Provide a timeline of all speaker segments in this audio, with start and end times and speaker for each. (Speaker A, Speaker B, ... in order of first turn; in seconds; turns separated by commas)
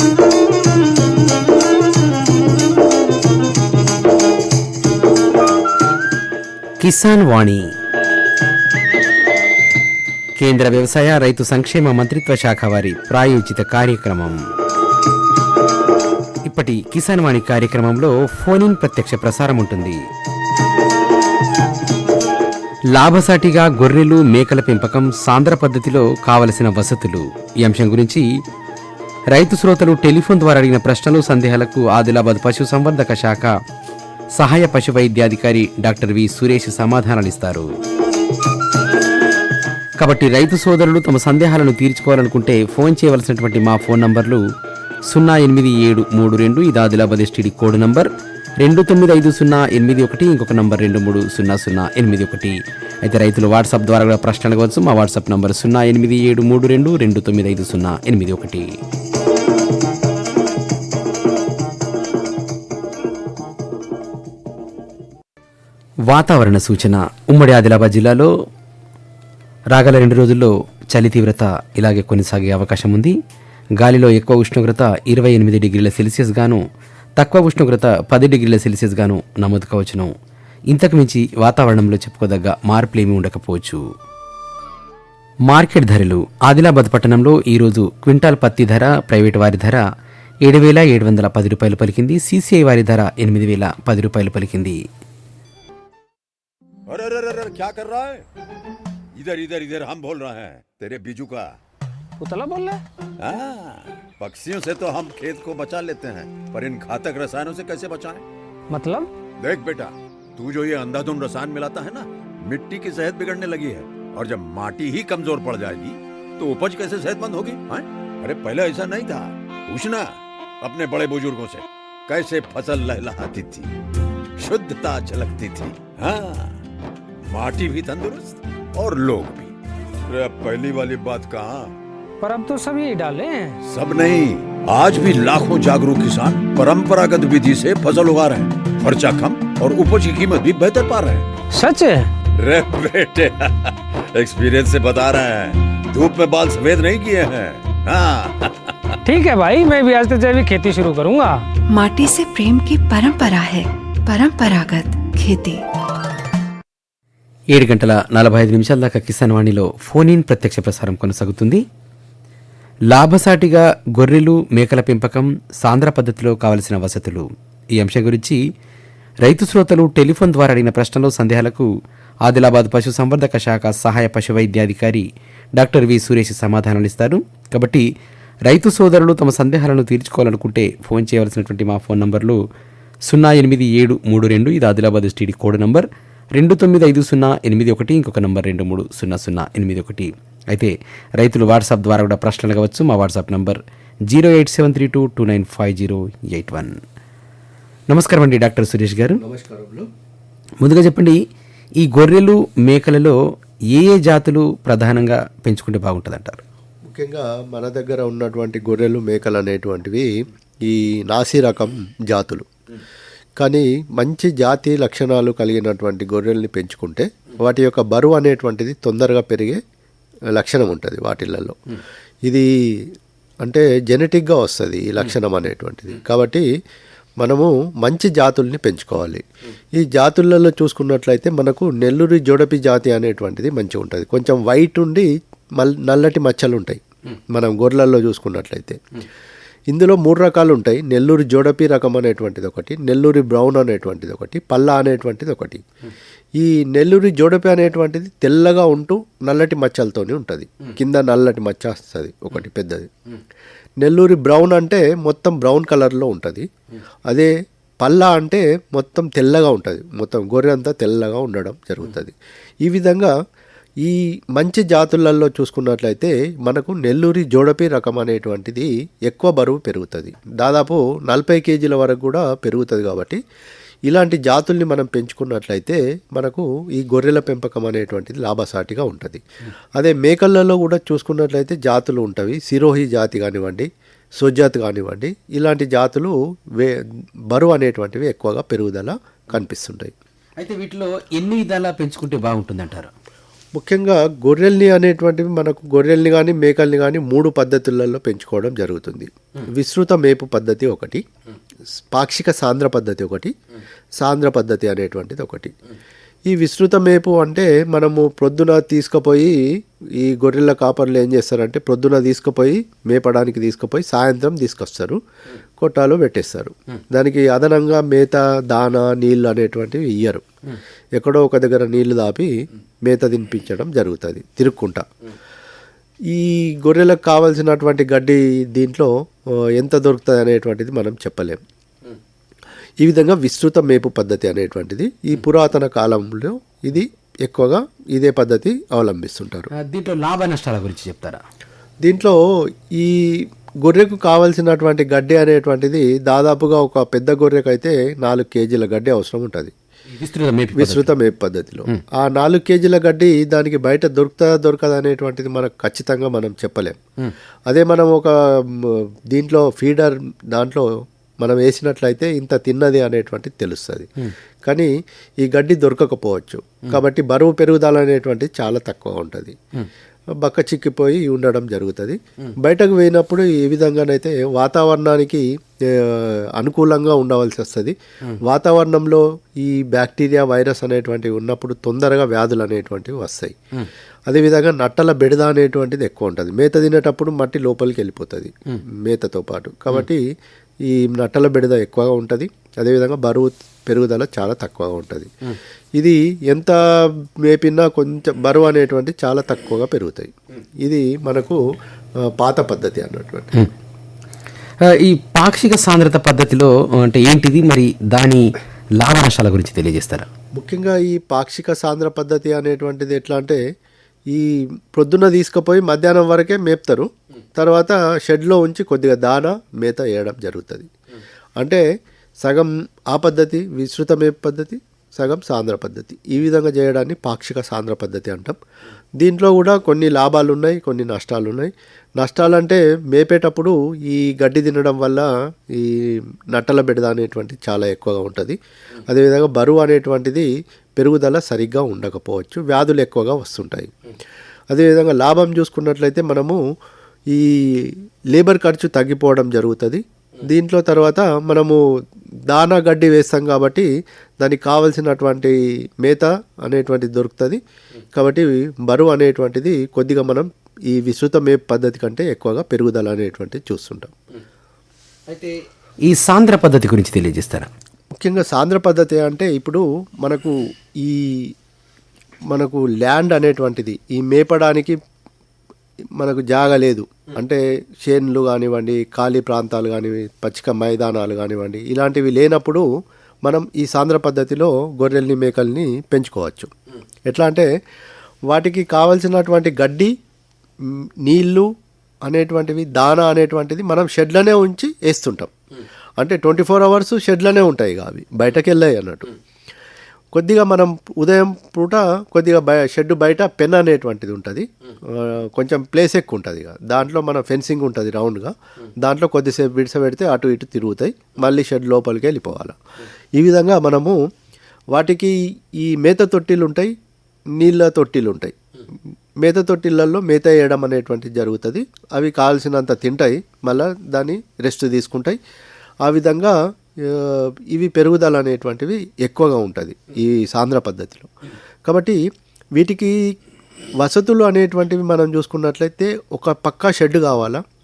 Speaker A: 6.8-7.7, Speaker A: 10.4-14.4, Speaker A: 16.5-20.0, Speaker A: 22.9-28.3, Speaker A: 29.3-33.5, Speaker A: 34.4-37.7, Speaker A: 40.0-44.4, Speaker A: 45.1-48.1, Speaker A: 48.6-58.7, Speaker A: 66.1-68.3, Speaker A: 69.7-73.1, Speaker A: 73.8-76.6, Speaker A: 77.2-80.1, Speaker A: 80.7-83.8, Speaker A: 85.5-89.8, Speaker A: 90.5-94.8, Speaker B: 96.9-98.2, Speaker B: 99.2-101.5, Speaker C: 102.2-102.8, Speaker B: 103.2-108.2, Speaker C: 108.7-109.1, Speaker B: 109.4-123.7, Speaker B: 124.4-126.5, Speaker B: 127.3-129.5, Speaker B: 130.1-131.7, Speaker C: 132.2-133.6, Speaker B: 133.7-141.3, Speaker C: 141.6-142.1, Speaker B: 142.4-149.0, Speaker C: 149.1-151.4, Speaker D: 151.7-155.6, Speaker A: 157.5-161.6, Speaker A: 162.9-168.4, Speaker A: 169.2-171.7, Speaker A: 172.3-175.1, Speaker A: 175.6-177.8, Speaker A: 178.5-182.4, Speaker A: 183.1-196.8, Speaker A: 197.9-199.2, Speaker E: 199.2-199.9, Speaker A: 200.6-201.2, Speaker A: 201.8-203.2, Speaker A: 203.7-206.4, Speaker E: 206.9-212.5, Speaker E: 213.4-219.6, Speaker E: 220.3-221.6, Speaker E: 223.4-226.5, Speaker E: 227.2-229.2, Speaker E: 229.8-238.8, Speaker E: 239.7-245.6, Speaker E: 246.4-252.9, Speaker E: 253.8-256.5, Speaker E: 257.1-263.1, Speaker E: 263.8-273.2, Speaker E: 273.9-279.2, Speaker E: 279.8-289.9, Speaker A: 290.4-292.9, Speaker E: 293.6-301.0, Speaker E: 301.8-303.3, Speaker E: 304.0-305.5, Speaker E: 306.3-309.3, Speaker E: 310.0-315.0, Speaker E: 315.6-320.2, Speaker E: 321.0-322.3, Speaker E: 322.9-324.9, Speaker E: 326.1-328.9, Speaker E: 329.6-331.4, Speaker E: 332.8-339.5, Speaker A: 339.5-341.2, Speaker E: 341.8-342.2, Speaker E: 342.7-349.5, Speaker A: 349.9-350.9, Speaker E: 350.6-356.8, Speaker E: 357.5-360.7, Speaker E: 361.2-363.9, Speaker E: 364.4-364.7, Speaker E: 365.2-369.4, Speaker E: 370.2-377.8, Speaker E: 378.3-383.4, Speaker E: 384.1-390.0, Speaker E: 390.6-395.1, Speaker E: 395.8-396.6, Speaker E: 397.2-401.4, Speaker E: 402.1-403.3, Speaker A: 404.6-410.1, Speaker E: 410.4-413.4, Speaker E: 414.1-420.7, Speaker E: 422.2-428.4, Speaker E: 429.0-443.7, Speaker E: 444.5-446.4, Speaker E: 447.1-451.6, Speaker E: 452.3-453.7, Speaker E: 454.2-457.4, Speaker E: 457.9-463.9, Speaker A: 465.1-467.5, Speaker E: 467.9-471.3, Speaker E: 472.3-474.8, Speaker E: 476.0-482.6, Speaker E: 483.2-486.5, Speaker E: 487.1-487.5, Speaker E: 488.3-489.9, Speaker E: 490.6-491.5, Speaker E: 492.1-495.3, Speaker E: 496.0-499.1, Speaker E: 500.1-512.5, Speaker E: 513.2-514.0, Speaker E: 514.7-516.7, Speaker E: 517.4-518.4, Speaker E: 519.2-525.2, Speaker E: 525.8-531.1, Speaker E: 531.7-532.0, Speaker E: 532.6-533.1, Speaker E: 533.8-537.4